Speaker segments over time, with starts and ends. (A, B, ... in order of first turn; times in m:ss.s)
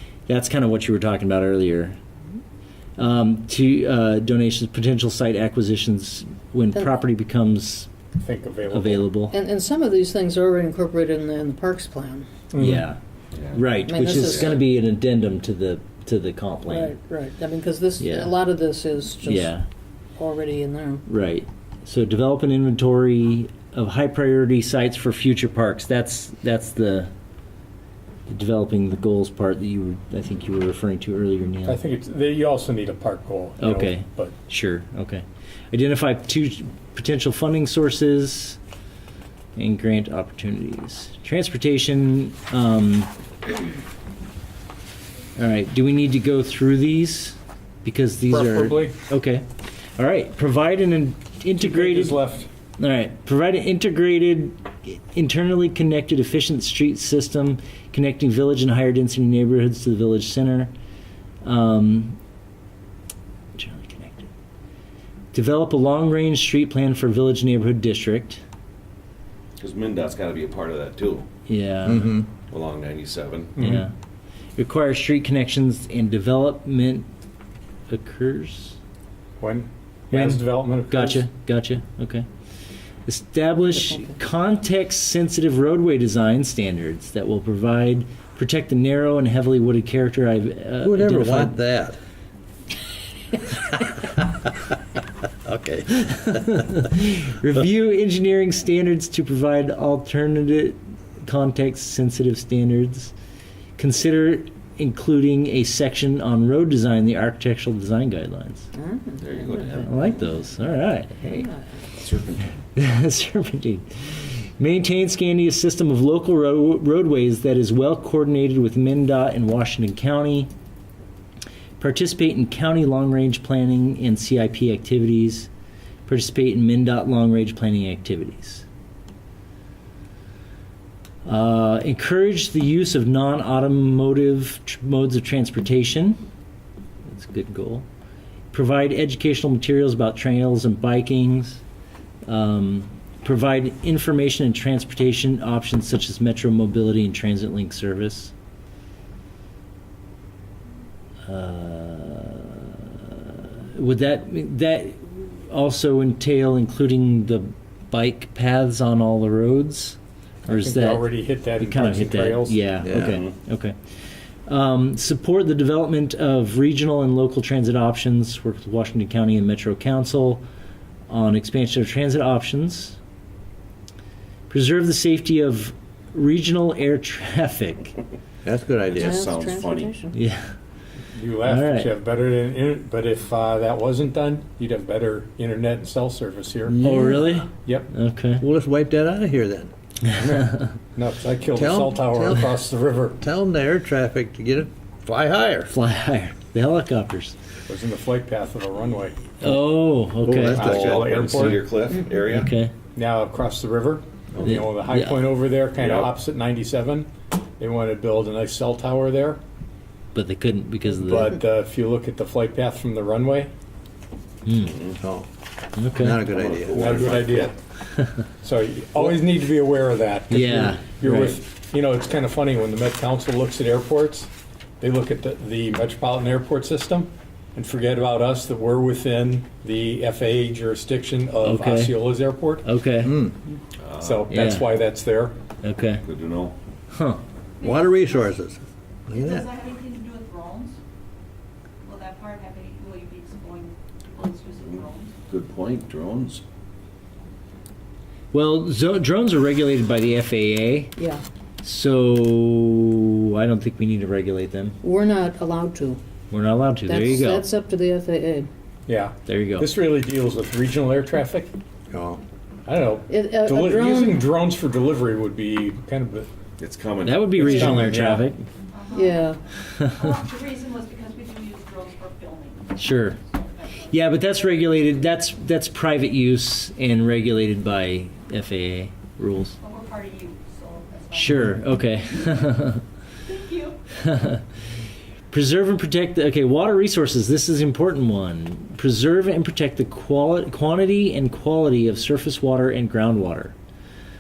0:00.3-0:02.0 A
0:03.0-0:07.9 A
0:08.2-0:09.1 B
0:08.7-0:09.3 A
0:09.3-0:12.3 C
0:12.5-0:12.8 B
0:12.6-0:13.0 A
0:13.3-0:13.7 D
0:13.5-0:17.0 A
0:13.8-0:14.6 C
0:14.2-0:14.6 D
0:16.7-0:19.6 C
0:18.0-0:18.4 A
0:19.2-0:19.6 A
0:20.2-0:21.0 C
0:21.0-0:27.1 A
0:28.3-0:31.8 A
0:31.6-0:34.3 B
0:33.6-0:38.6 A
0:39.6-0:43.1 A
0:45.4-0:52.2 A
0:48.3-0:49.0 B
0:51.6-0:52.5 B
0:52.8-1:00.7 A
1:01.4-1:02.2 A
1:03.5-1:04.3 A
1:05.3-1:08.4 A
1:09.6-1:11.2 D
1:11.5-1:12.1 A
1:11.8-1:12.3 E
1:12.5-1:13.6 D
1:13.6-1:13.9 A
1:13.6-1:13.8 B
1:14.6-1:17.1 A
1:17.9-1:18.8 A
1:19.4-1:21.2 B
1:20.1-1:22.3 A
1:23.0-1:31.6 A
1:30.8-1:32.0 E
1:33.7-1:34.2 E
1:35.4-1:36.5 E
1:36.1-1:43.1 A
1:43.8-1:48.7 A
1:48.7-1:49.8 C
1:49.2-1:49.9 D
1:49.8-1:51.5 A
1:51.3-1:51.6 C
1:51.9-1:52.5 D
1:52.8-2:00.5 A
2:01.8-2:05.5 A
2:06.1-2:08.6 A
2:11.2-2:16.2 A
2:17.1-2:17.9 A
2:18.5-2:21.6 A
2:22.2-2:28.3 A
2:31.3-2:43.8 A
2:40.5-2:42.6 B
2:42.8-2:43.2 E
2:44.4-2:50.4 A
2:51.1-2:53.0 A
2:54.5-2:58.0 A
2:58.4-2:59.2 E
2:58.9-2:59.9 D
2:59.0-3:00.2 C
3:00.1-3:00.5 A
3:01.1-3:06.8 B
3:01.4-3:01.9 A
3:06.7-3:07.4 E
3:06.8-3:08.4 A
3:08.4-3:09.7 E
3:10.2-3:10.4 B
3:11.0-3:13.2 B
3:11.5-3:12.6 E
3:13.2-3:15.7 E
3:15.7-3:17.3 A
3:17.7-3:19.2 B
3:19.4-3:20.7 A
3:20.2-3:21.5 E
3:20.5-3:21.7 B
3:20.6-3:22.5 D
3:22.3-3:22.7 A
3:23.0-3:27.1 B
3:24.4-3:25.3 A
3:25.8-3:26.1 D
3:27.6-3:29.4 B
3:30.1-3:31.3 A
3:31.0-3:33.5 B
3:34.4-3:34.7 A
3:35.0-3:35.3 E
3:35.8-3:36.2 A
3:35.9-3:37.2 E
3:36.4-3:37.5 D
3:36.7-3:37.5 B
3:38.4-3:44.3 B
3:40.3-3:41.4 A
3:44.8-3:52.6 B
3:51.4-3:52.0 A
3:52.6-3:53.2 A
3:53.0-3:53.3 E
3:53.9-3:54.2 D
3:54.0-3:55.3 B
3:54.3-3:54.7 A
3:55.6-3:56.0 A
3:56.0-3:56.6 D
3:56.9-3:57.2 A
3:57.6-3:58.3 F
3:57.6-3:59.5 E
3:59.1-4:00.8 F
4:01.8-4:05.1 F
4:04.7-4:06.4 D
4:08.3-4:11.0 A
4:11.0-4:11.2 C
4:11.6-4:14.8 A
4:14.8-4:16.0 C
4:16.3-4:17.4 A
4:16.8-4:18.5 C
4:18.9-4:21.5 B
4:19.2-4:19.7 A
4:21.9-4:22.2 E
4:22.6-4:26.3 B
4:23.1-4:24.2 C
4:26.6-4:27.4 D
4:27.0-4:28.4 A
4:27.3-4:28.3 B
4:28.7-4:33.9 F
4:29.0-4:29.4 C
4:32.8-4:33.2 A
4:33.9-4:39.6 A
4:39.6-4:41.6 F
4:41.1-4:42.8 A
4:43.2-4:43.8 F
4:44.0-4:44.4 A
4:45.3-4:53.5 A